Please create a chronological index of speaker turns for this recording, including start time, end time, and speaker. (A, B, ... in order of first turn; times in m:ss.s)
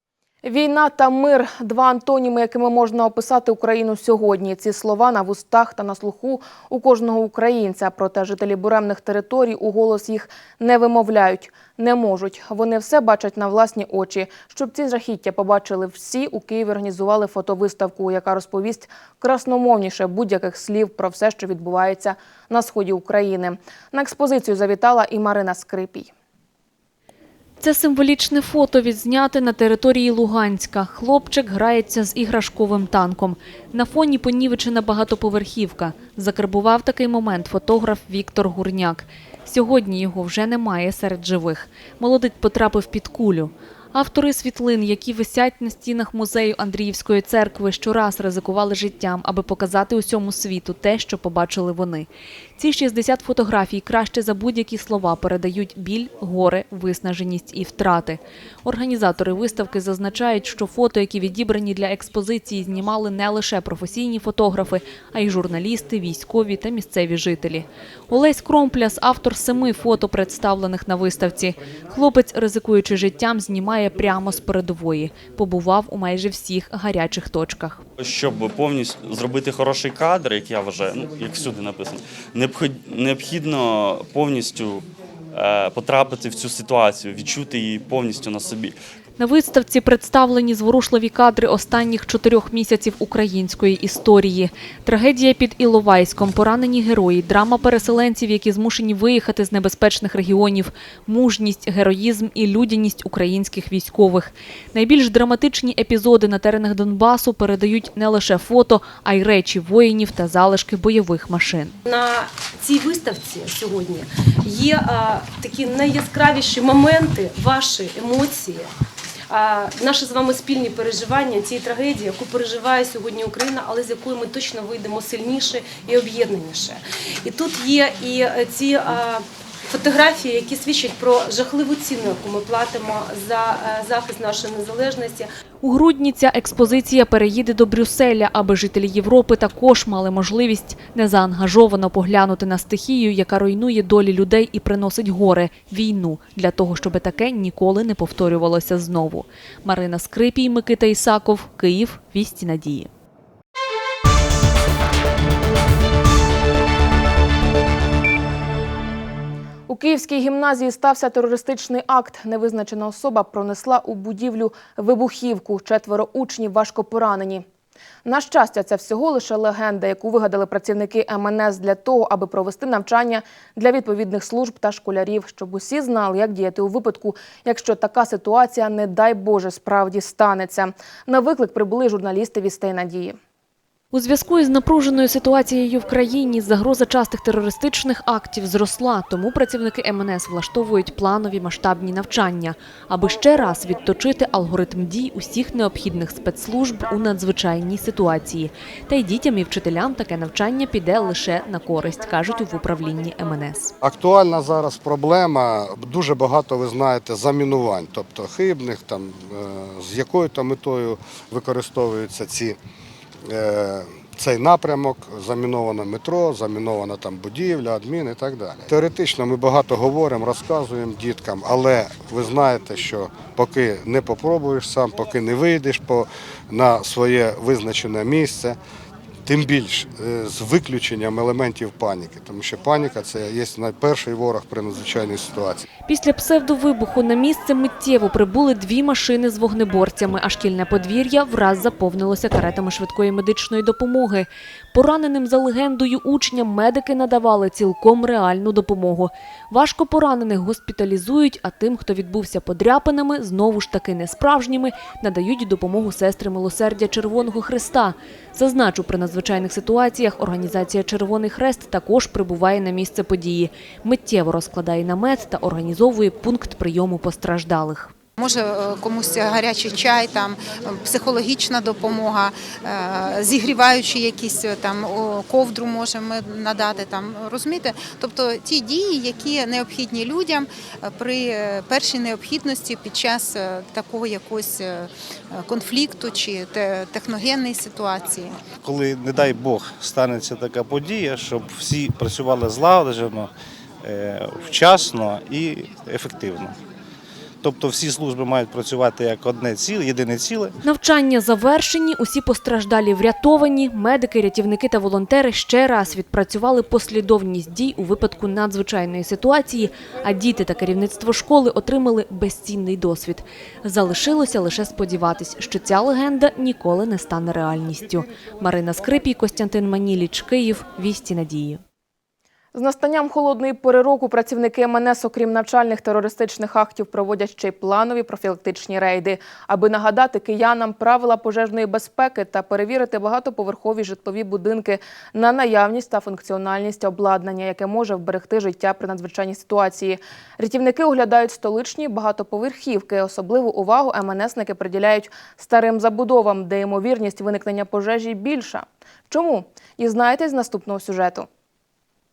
0:00.4-0:26.1 A
0:27.6-1:17.8 B
1:18.0-1:28.8 C
1:29.2-1:51.8 B
1:51.9-1:58.7 D
1:59.3-2:15.3 D
2:15.6-2:32.9 B
2:39.7-2:47.4 A
2:48.0-3:03.2 A
3:03.9-3:23.7 B
3:23.8-3:32.6 E
3:33.3-3:48.6 E
3:49.3-3:55.6 E
3:55.9-4:27.9 B
4:28.2-4:48.4 F
4:48.6-4:53.3 G
4:53.8-4:56.6 G
4:57.4-5:00.6 G
5:00.6-5:21.6 B
5:22.5-5:51.3 A